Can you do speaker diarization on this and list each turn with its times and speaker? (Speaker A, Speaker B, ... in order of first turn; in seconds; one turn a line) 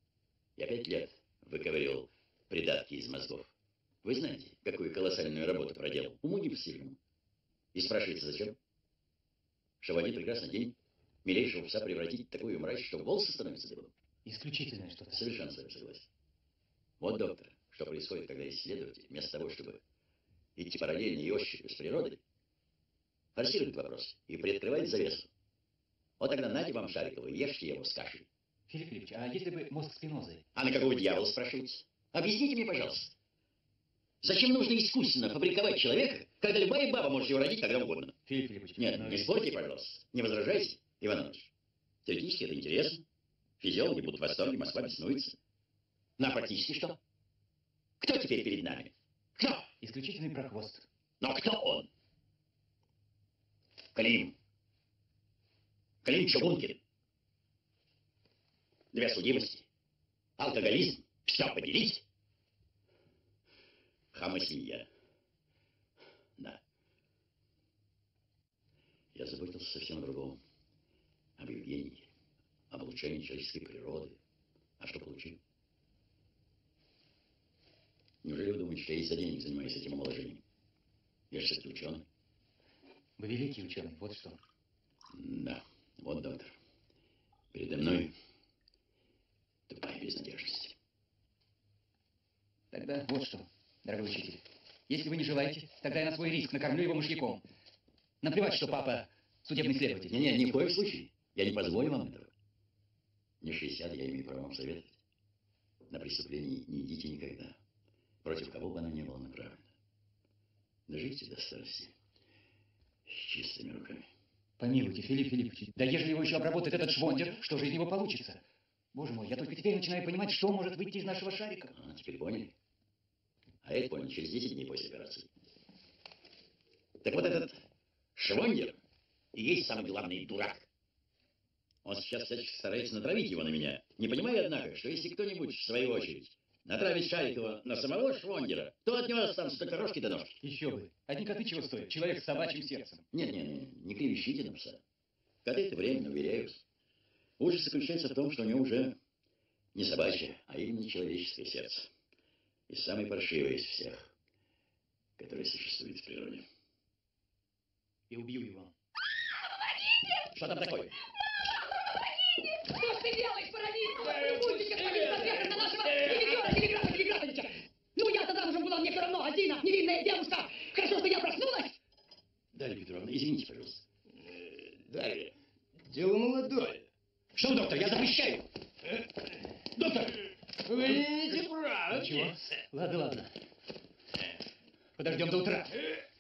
Speaker A: 0.6-7.0
Speaker A: 7.7-8.6
Speaker A: 9.8-13.9
Speaker B: 14.2-15.3
Speaker A: 15.1-16.1
Speaker A: 17.0-19.8
Speaker A: 20.6-22.2
Speaker A: 23.4-25.3
Speaker A: 26.2-28.3
Speaker B: 28.7-30.5
Speaker A: 30.6-33.1
Speaker A: 34.2-38.2
Speaker B: 38.3-39.4
Speaker A: 38.8-41.5
Speaker A: 42.0-43.0
Speaker A: 43.6-45.4
Speaker A: 46.2-47.0
Speaker A: 48.0-49.7
Speaker B: 49.8-50.9
Speaker A: 51.2-51.9
Speaker A: 53.9-54.4
Speaker A: 56.0-56.8
Speaker A: 58.9-59.7
Speaker A: 60.4-62.0
Speaker A: 64.1-64.9
Speaker A: 69.1-70.4
Speaker A: 71.4-72.1
Speaker A: 72.7-74.2
Speaker A: 74.8-75.4
Speaker A: 78.2-80.4
Speaker A: 81.3-82.1
Speaker B: 83.2-84.4
Speaker A: 85.1-86.6
Speaker A: 87.5-88.1
Speaker A: 89.7-90.8
Speaker B: 92.7-97.4
Speaker B: 98.2-100.2
Speaker A: 100.1-102.3
Speaker A: 103.4-105.0
Speaker A: 105.9-107.6
Speaker A: 108.2-109.7
Speaker A: 110.9-112.0
Speaker A: 113.1-114.1
Speaker B: 114.6-118.4
Speaker B: 118.9-121.7
Speaker A: 121.7-122.5
Speaker A: 123.6-125.3
Speaker A: 127.0-127.6
Speaker A: 128.2-128.8
Speaker A: 129.3-130.7
Speaker A: 131.8-140.4
Speaker B: 140.4-143.1
Speaker A: 143.1-144.8
Speaker A: 145.4-146.6
Speaker A: 147.4-149.0
Speaker A: 149.7-151.9
Speaker A: 152.7-154.1
Speaker A: 155.2-156.5
Speaker B: 158.1-158.7
Speaker A: 160.3-160.9
Speaker C: 162.7-171.8
Speaker D: 164.1-165.5
Speaker A: 172.5-173.8
Speaker D: 174.8-175.3
Speaker D: 175.9-176.9
Speaker A: 177.3-178.5
Speaker D: 180.7-182.3
Speaker B: 181.9-183.3
Speaker B: 185.0-185.8